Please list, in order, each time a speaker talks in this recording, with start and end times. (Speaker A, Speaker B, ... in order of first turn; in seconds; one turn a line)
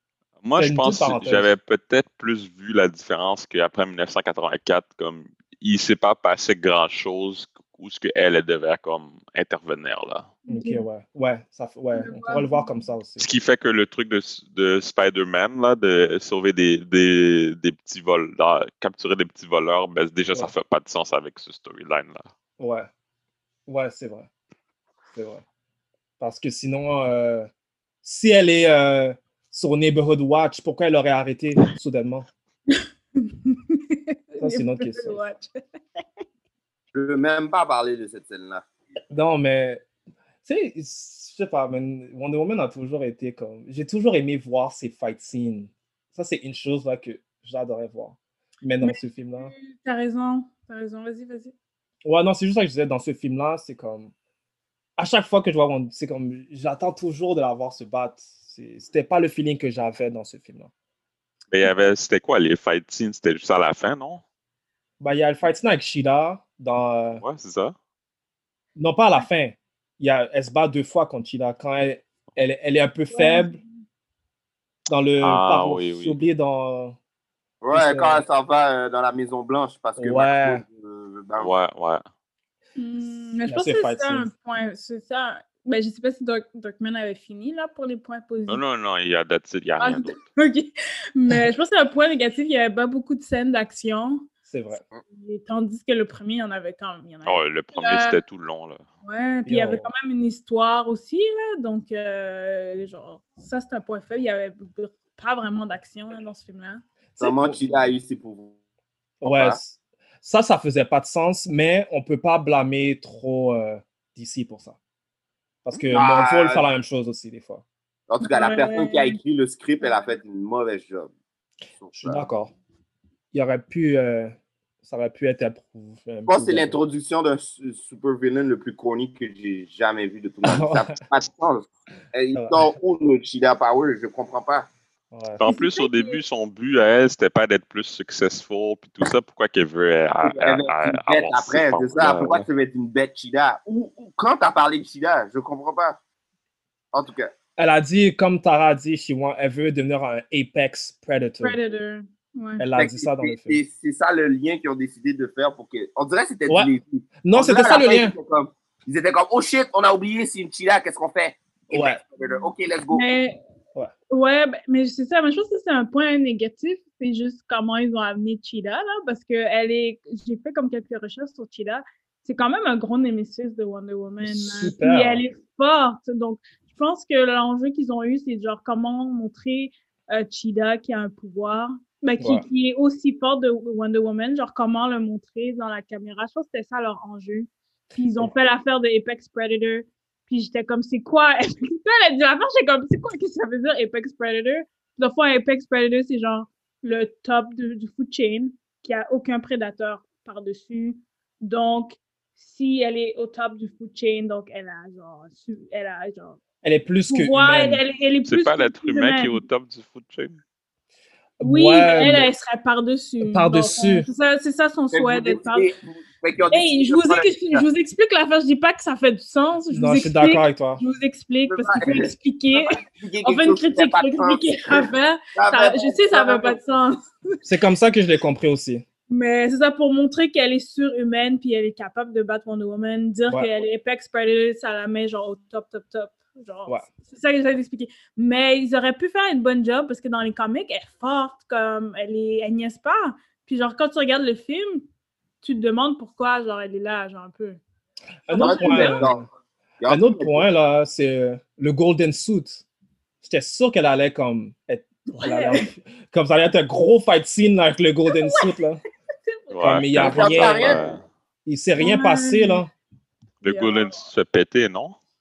Speaker A: 0.4-10.3
Speaker B: 0.6-1.5
Speaker C: 10.5-10.9
Speaker B: 10.5-13.3
Speaker C: 11.9-12.8
Speaker A: 13.2-22.3
Speaker B: 22.6-22.9
Speaker B: 23.7-24.3
Speaker B: 25.1-25.4
Speaker B: 26.2-27.5
Speaker B: 28.0-32.3
Speaker C: 32.7-36.0
Speaker B: 34.4-35.2
Speaker D: 36.9-38.6
Speaker B: 39.1-39.8
Speaker B: 40.4-49.5
Speaker C: 48.8-51.5
Speaker B: 52.0-54.1
Speaker B: 55.0-60.7
Speaker A: 61.5-64.2
Speaker B: 65.0-67.2
Speaker A: 67.2-67.7
Speaker B: 68.8-73.6
Speaker C: 73.1-73.8
Speaker B: 74.9-77.0
Speaker A: 75.2-76.2
Speaker D: 77.6-81.5
Speaker B: 77.7-78.2
Speaker B: 80.0-80.6
Speaker A: 81.4-82.0
Speaker C: 82.8-88.6
Speaker B: 83.5-84.3
Speaker A: 88.5-90.2
Speaker C: 89.8-94.2
Speaker B: 94.5-94.8
Speaker C: 95.1-98.2
Speaker A: 97.2-98.8
Speaker C: 99.0-106.8
Speaker B: 99.5-99.9
Speaker B: 107.2-107.9
Speaker D: 107.2-108.5
Speaker B: 109.2-114.8
Speaker D: 109.2-109.6
Speaker B: 115.6-117.6
Speaker D: 115.9-116.7
Speaker D: 118.1-121.1
Speaker C: 118.2-119.2
Speaker C: 119.8-120.1
Speaker D: 121.8-122.3
Speaker B: 121.9-122.5
Speaker B: 123.3-126.8
Speaker D: 126.3-134.7
Speaker B: 130.4-131.0
Speaker B: 132.3-132.7
Speaker B: 135.1-135.4
Speaker A: 135.4-142.4
Speaker C: 135.4-136.2
Speaker D: 140.2-146.0
Speaker D: 146.9-147.3
Speaker B: 147.6-151.6
Speaker C: 151.4-152.6
Speaker B: 152.6-153.6
Speaker D: 152.7-163.0
Speaker B: 157.2-158.1
Speaker B: 161.7-162.0
Speaker C: 162.2-163.4
Speaker C: 164.1-206.4
Speaker B: 174.2-175.2
Speaker B: 182.2-182.4
Speaker B: 206.6-207.8
Speaker C: 207.1-209.4
Speaker A: 208.2-210.4
Speaker B: 211.4-212.3
Speaker C: 211.4-215.7
Speaker B: 213.2-214.1
Speaker D: 214.9-217.6
Speaker C: 216.5-227.1
Speaker B: 219.7-220.8
Speaker D: 221.5-226.6
Speaker B: 227.4-228.8
Speaker C: 229.1-244.8
Speaker C: 245.4-247.6
Speaker B: 248.2-249.2
Speaker C: 248.3-249.1
Speaker D: 248.4-249.3
Speaker D: 249.8-250.4
Speaker B: 249.9-252.6
Speaker B: 253.2-258.8
Speaker C: 255.2-255.7
Speaker C: 258.1-258.5
Speaker C: 259.3-259.7
Speaker A: 259.5-261.0
Speaker B: 259.6-260.8
Speaker D: 259.9-261.0
Speaker B: 261.4-262.7
Speaker C: 261.8-262.6
Speaker A: 263.4-265.0
Speaker C: 263.4-264.0